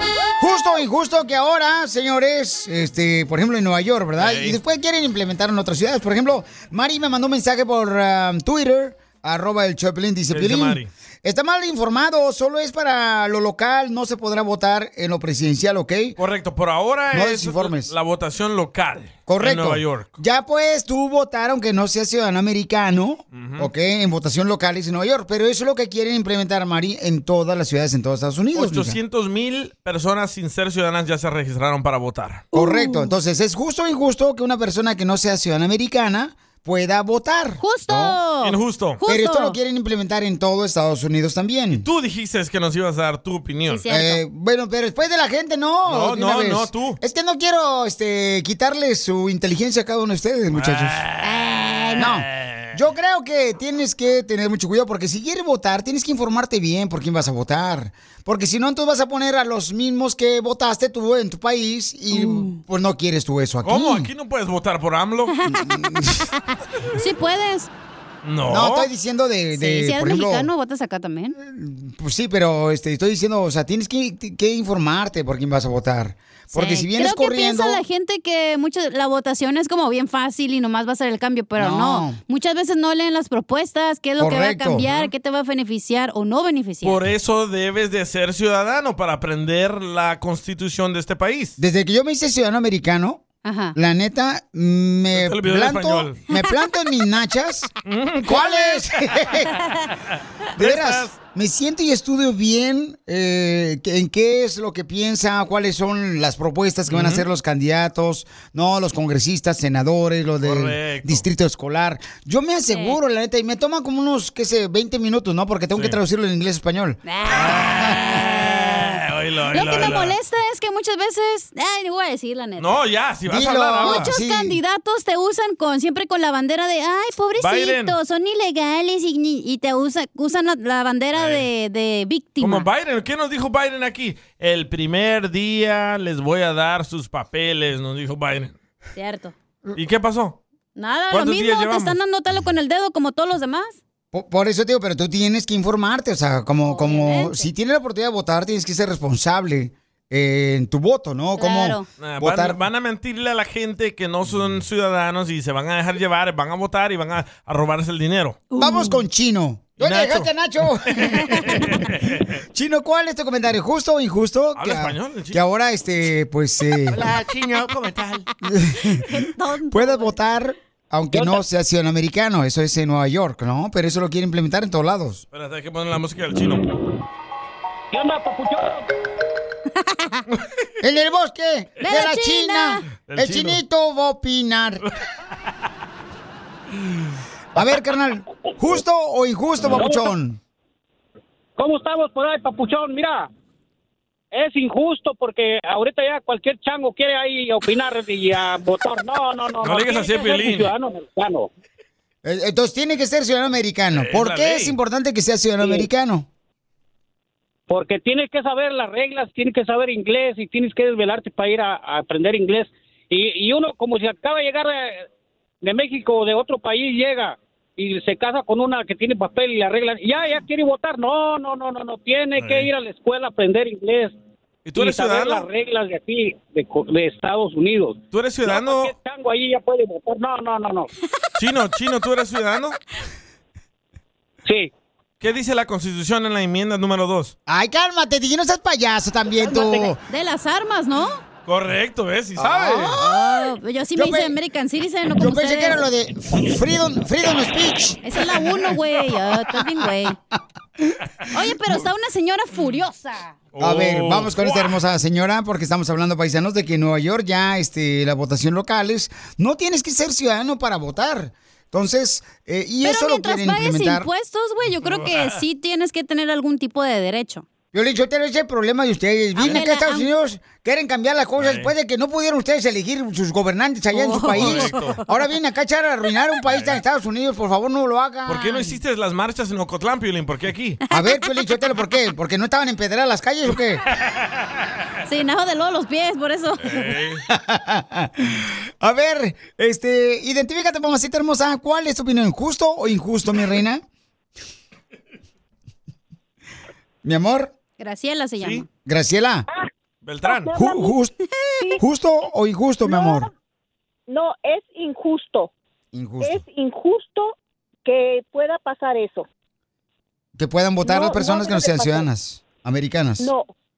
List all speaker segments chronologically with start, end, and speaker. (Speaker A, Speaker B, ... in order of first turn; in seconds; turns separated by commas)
Speaker A: 0.4-16.1, Speaker B: 4.2-4.6, Speaker B: 10.3-10.9, Speaker B: 16.2-20.1, Speaker A: 17.1-17.9, Speaker A: 19.3-29.0, Speaker B: 23.3-23.7, Speaker B: 28.5-32.5, Speaker A: 32.5-38.2, Speaker C: 32.5-33.1, Speaker C: 37.6-39.6, Speaker B: 38.4-39.0, Speaker A: 39.0-41.9, Speaker B: 41.8-43.8, Speaker C: 43.7-44.2, Speaker A: 43.9-51.0, Speaker B: 45.9-47.0, Speaker B: 50.5-52.8, Speaker C: 51.2-52.1, Speaker A: 52.0-64.1, Speaker C: 62.1-62.6, Speaker B: 63.6-65.3, Speaker C: 65.3-65.8, Speaker A: 65.5-66.2, Speaker C: 67.0-67.7, Speaker B: 68.2-68.9, Speaker A: 68.5-70.5, Speaker C: 69.5-71.3, Speaker A: 71.3-77.8, Speaker C: 76.5-87.0, Speaker A: 81.6-82.2, Speaker A: 84.2-84.8, Speaker B: 84.8-85.1, Speaker B: 86.8-91.6, Speaker A: 91.6-93.2, Speaker C: 93.4-93.7, Speaker A: 93.7-97.7, Speaker B: 95.1-96.2, Speaker B: 97.8-98.9, Speaker A: 98.2-99.5, Speaker B: 100.1-101.1, Speaker A: 100.6-118.0, Speaker B: 106.9-107.2, Speaker B: 110.4-111.2, Speaker C: 112.7-113.0, Speaker C: 117.0-118.9, Speaker B: 117.3-120.2, Speaker C: 119.5-122.7, Speaker B: 122.6-124.1, Speaker A: 123.3-124.6, Speaker C: 123.8-132.7, Speaker B: 127.4-128.0, Speaker B: 131.1-131.4, Speaker B: 132.4-138.5, Speaker C: 138.9-139.3, Speaker B: 139.8-140.4, Speaker C: 140.8-143.8, Speaker B: 141.1-142.0, Speaker A: 144.1-152.6, Speaker C: 146.7-147.5, Speaker C: 151.4-151.8, Speaker B: 152.0-158.4, Speaker C: 158.5-159.0, Speaker A: 158.6-161.8, Speaker B: 159.8-160.3, Speaker B: 161.0-162.2, Speaker A: 162.5-167.0, Speaker B: 164.5-165.4, Speaker A: 168.4-169.0, Speaker C: 169.0-170.1, Speaker A: 169.7-175.2, Speaker D: 171.1-171.4, Speaker B: 175.3-176.6, Speaker D: 177.9-178.9, Speaker A: 180.8-184.8, Speaker C: 181.8-182.8, Speaker B: 183.0-183.6, Speaker A: 187.5-190.4, Speaker D: 189.7-190.1, Speaker D: 191.6-193.3, Speaker D: 194.3-201.5, Speaker B: 199.6-200.7, Speaker A: 202.2-206.3, Speaker B: 203.9-204.8, Speaker D: 205.6-205.9, Speaker D: 207.7-215.1, Speaker D: 215.6-224.2, Speaker B: 222.4-222.7, Speaker B: 224.6-225.4, Speaker D: 224.8-230.9, Speaker B: 228.1-228.9, Speaker B: 231.4-232.8, Speaker D: 234.4-234.7, Speaker B: 235.2-237.3, Speaker A: 237.5-240.0, Speaker D: 239.5-239.9, Speaker C: 240.1-241.2, Speaker B: 241.4-243.0, Speaker A: 242.4-244.3, Speaker C: 242.9-245.8, Speaker A: 245.2-248.0, Speaker C: 248.0-250.2, Speaker C: 251.3-253.3, Speaker B: 253.5-254.8, Speaker A: 253.6-264.1, Speaker C: 262.8-267.4, Speaker B: 264.8-265.4, Speaker A: 267.7-278.7, Speaker C: 269.4-270.1, Speaker B: 271.4-271.7, Speaker C: 273.9-274.7, Speaker B: 274.3-275.0, Speaker B: 276.5-276.7, Speaker B: 278.3-280.8, Speaker A: 280.9-283.8, Speaker C: 280.9-281.2, Speaker C: 285.1-286.8, Speaker B: 286.6-287.2, Speaker A: 287.3-293.8, Speaker A: 297.0-297.5, Speaker C: 297.8-298.6, Speaker A: 298.9-299.4, Speaker B: 300.0-300.6, Speaker E: 300.2-300.9, Speaker A: 300.5-301.1, Speaker A: 301.8-303.3, Speaker E: 302.8-303.3, Speaker E: 304.1-305.5, Speaker A: 305.9-306.4, Speaker E: 306.2-309.3, Speaker A: 310.4-313.3, Speaker E: 310.8-312.1, Speaker E: 313.2-313.5